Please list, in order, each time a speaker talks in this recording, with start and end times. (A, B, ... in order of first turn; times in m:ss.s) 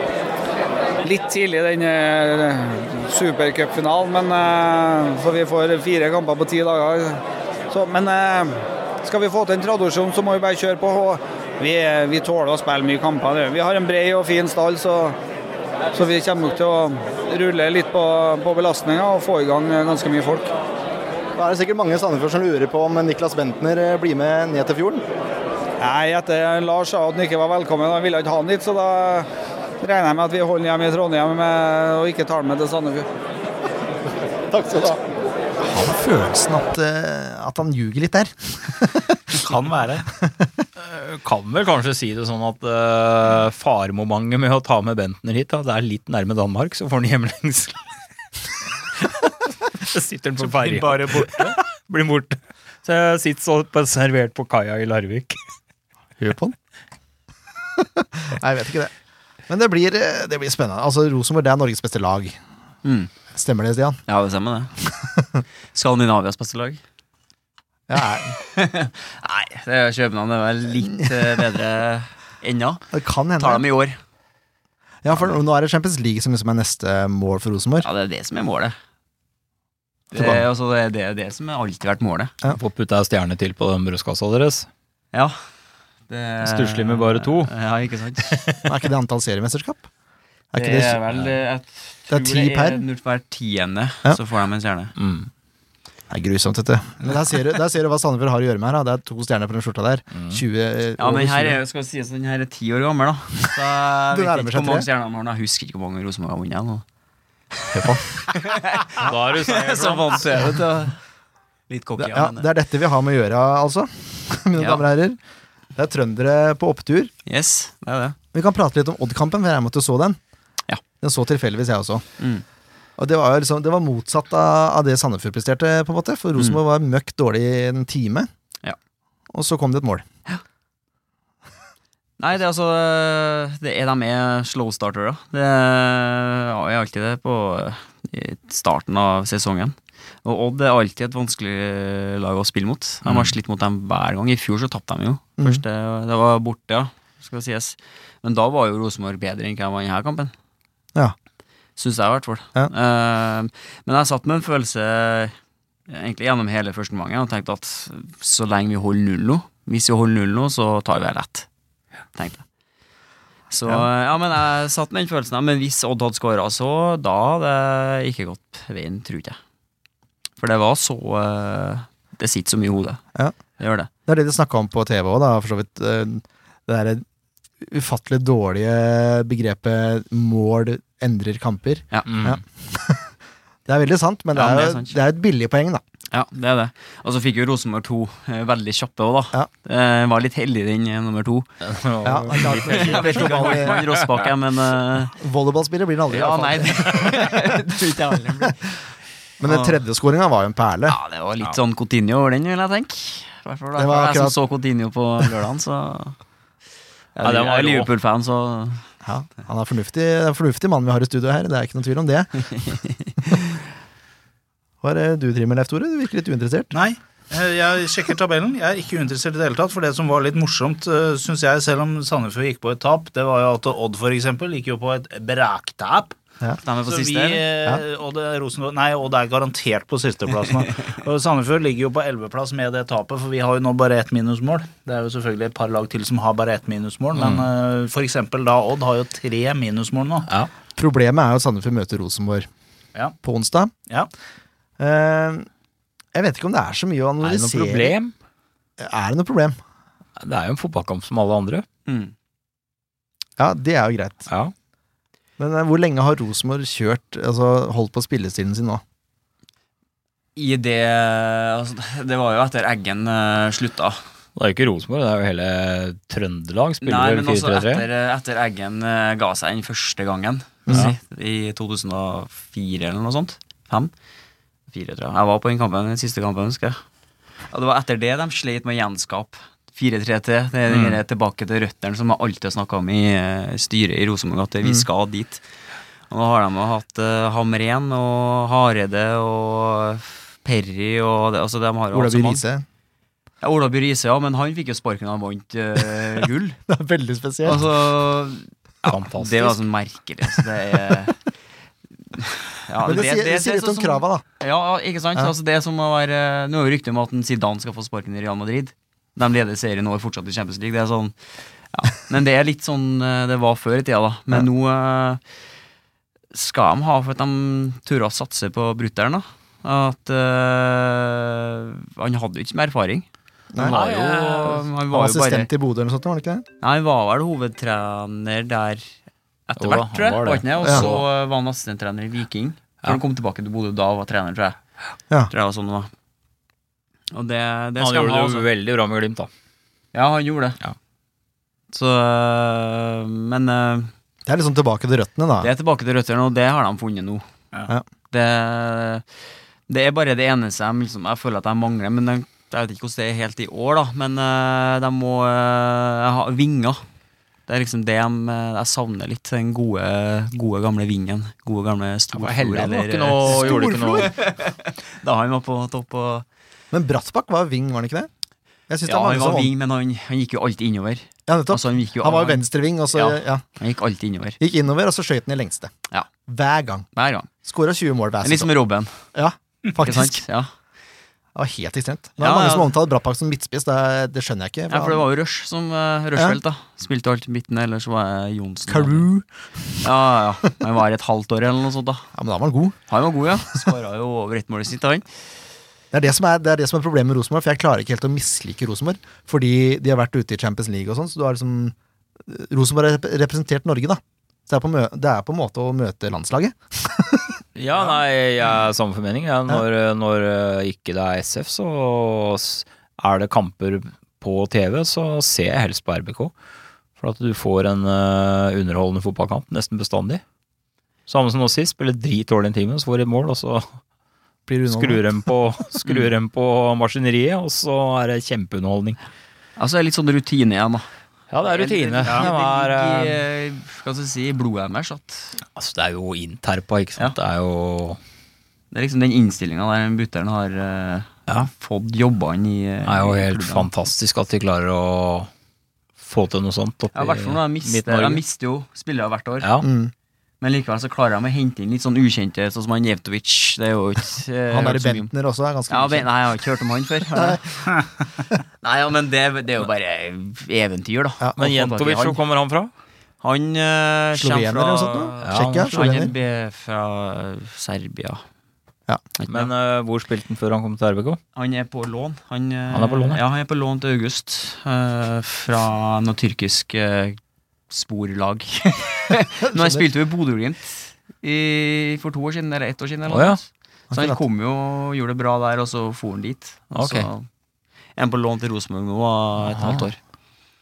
0:01.0-0:15.2 A
0:15.9-0:20.5 A
0:21.4-0:25.0 B
0:25.8-0:29.3 A
0:29.8-0:33.1 A
0:34.5-0:35.0 B
0:35.6-0:39.2 B
0:39.4-0:40.1 C
0:40.8-0:47.8 D
0:49.0-0:55.4 D
0:50.4-0:51.6 C
0:56.2-0:56.6 B
0:57.8-0:58.9 B
0:59.5-1:02.4 B
1:02.8-1:03.1 E
1:03.3-1:04.0 B
1:04.1-1:04.7 E
1:05.2-1:05.4 B
1:05.7-1:06.8 E
1:07.9-1:08.4 B
1:08.4-1:14.0 E
1:12.9-1:13.7 B
1:15.0-1:17.9 B
1:17.8-1:18.8 E
1:20.1-1:22.3 E
1:20.2-1:20.4 B
1:22.5-1:24.7 D
1:26.1-1:28.5 E
1:26.4-1:27.5 D
1:28.3-1:28.6 D
1:28.7-1:29.9 B
1:30.5-1:31.0 B
1:30.6-1:34.9 E
1:32.1-1:32.8 B
1:35.0-1:35.3 D
1:36.1-1:41.6 B
1:40.1-1:40.4 D
1:41.0-1:46.8 E
1:44.1-1:44.9 B
1:47.7-1:48.1 B
1:48.3-1:51.0 E
1:49.0-1:50.3 D
1:51.7-1:52.5 E
1:52.0-1:55.2 B
1:54.6-1:54.8 E
1:55.8-1:57.1 B
1:57.3-1:58.2 E
1:58.3-2:00.2 B
2:01.0-2:02.0 B
2:02.2-2:02.4 E
2:03.0-2:08.3 B
2:09.3-2:10.0 B
2:12.2-2:30.3 E
2:23.0-2:23.3 D
2:31.8-2:35.4 E
2:35.9-2:41.5 E
2:42.2-2:42.4 E
2:43.5-2:49.4 E
2:50.4-2:53.0 E
2:53.6-2:53.9 E
2:54.1-2:57.0 B
2:57.6-3:03.1 B
3:02.1-3:02.4 D
3:03.7-3:05.8 B
3:04.3-3:05.0 E
3:06.1-3:11.5 E
3:11.6-3:14.1 D
3:12.0-3:13.8 B
3:12.3-3:15.2 E
3:15.2-3:17.3 B
3:16.1-3:18.6 E
3:19.4-3:21.0 B
3:19.4-3:19.8 E
3:20.9-3:26.2 E
3:23.8-3:24.4 B
3:27.2-3:28.8 E
3:27.2-3:27.9 D
3:29.0-3:32.5 B
3:32.6-3:33.1 E
3:34.8-3:36.7 B
3:36.7-3:46.2 C
3:46.6-3:47.5 E
3:46.9-4:00.3 C
3:57.2-3:57.5 D
4:00.8-4:02.5 B
4:03.2-4:03.7 B
4:04.8-4:05.5 B
4:06.1-4:08.0 B
4:07.2-4:08.1 D
4:08.8-4:09.6 B
4:10.2-4:11.6 D
4:11.9-4:12.1 E
4:13.4-4:14.3 B
4:15.4-4:18.8 B
4:20.4-4:24.0 E
4:24.4-4:27.8 D
4:26.8-4:33.9 E
4:34.7-4:36.8 E
4:37.5-4:45.4 E
4:40.7-4:41.0 D
4:46.1-4:52.4 E
4:51.9-4:52.6 B
4:53.4-4:56.6 E
4:56.7-4:57.6 B
4:57.4-5:01.2 E
4:58.9-4:59.6 D
5:02.1-5:11.2 E
5:02.8-5:04.2 B
5:11.7-5:15.2 E
5:16.3-5:23.1 E
5:23.5-5:23.8 B
5:23.6-5:25.5 E
5:23.6-5:24.7 D
5:24.9-5:26.4 B
5:26.6-5:28.9 E
5:29.5-5:34.6 E
5:29.6-5:31.0 D
5:35.3-5:35.9 E
5:37.1-5:38.5 E
5:37.8-5:39.3 D
5:39.9-5:40.6 E
5:41.7-5:43.9 E
5:44.3-5:45.5 B
5:45.4-5:47.2 E
5:48.1-5:49.0 E
5:49.7-5:56.8 E
5:57.5-6:06.2 E
6:02.1-6:04.1 D
6:03.3-6:04.1 B
6:06.7-6:08.1 B
6:08.7-6:09.5 B
6:08.9-6:14.4 E
6:11.3-6:13.4 B
6:14.4-6:15.7 B
6:16.3-6:16.9 B
6:16.9-6:17.3 E
6:17.4-6:18.5 B
6:18.2-6:18.9 E
6:19.1-6:20.2 B
6:19.8-6:20.5 E
6:21.4-6:25.0 B
6:22.2-6:22.8 E
6:24.7-6:29.1 E
6:28.7-6:29.3 B
6:29.8-6:32.1 E
6:32.2-6:32.8 B
6:32.9-6:35.1 E
6:35.9-6:41.8 B
6:42.3-6:47.4 B
6:47.6-6:56.3 D
6:57.0-7:00.2 D
7:01.1-7:03.8 D
7:04.5-7:05.0 B
7:04.7-7:09.0 D
7:09.6-7:10.9 E
7:11.3-7:13.2 D
7:11.4-7:15.4 E
7:15.6-7:18.0 D
7:18.7-7:23.7 E
7:22.8-7:25.3 D
7:26.0-7:28.2 D
7:26.9-7:29.6 E
7:29.6-7:29.9 B
7:30.4-7:35.1 E
7:34.5-7:36.1 B
7:35.7-7:37.7 E
7:38.6-7:42.2 E
7:41.4-7:42.7 D
7:43.2-7:48.2 E
7:44.2-7:46.1 B
7:45.2-7:45.7 D
7:49.2-7:49.5 E
7:49.3-7:51.2 D
7:51.3-7:57.2 E
7:52.7-7:53.2 D
7:57.7-8:07.3 E
7:59.4-7:59.9 B
8:03.1-8:03.4 D
8:03.9-8:04.2 B
8:06.8-8:07.1 D
8:08.0-8:10.0 E
8:09.4-8:09.9 D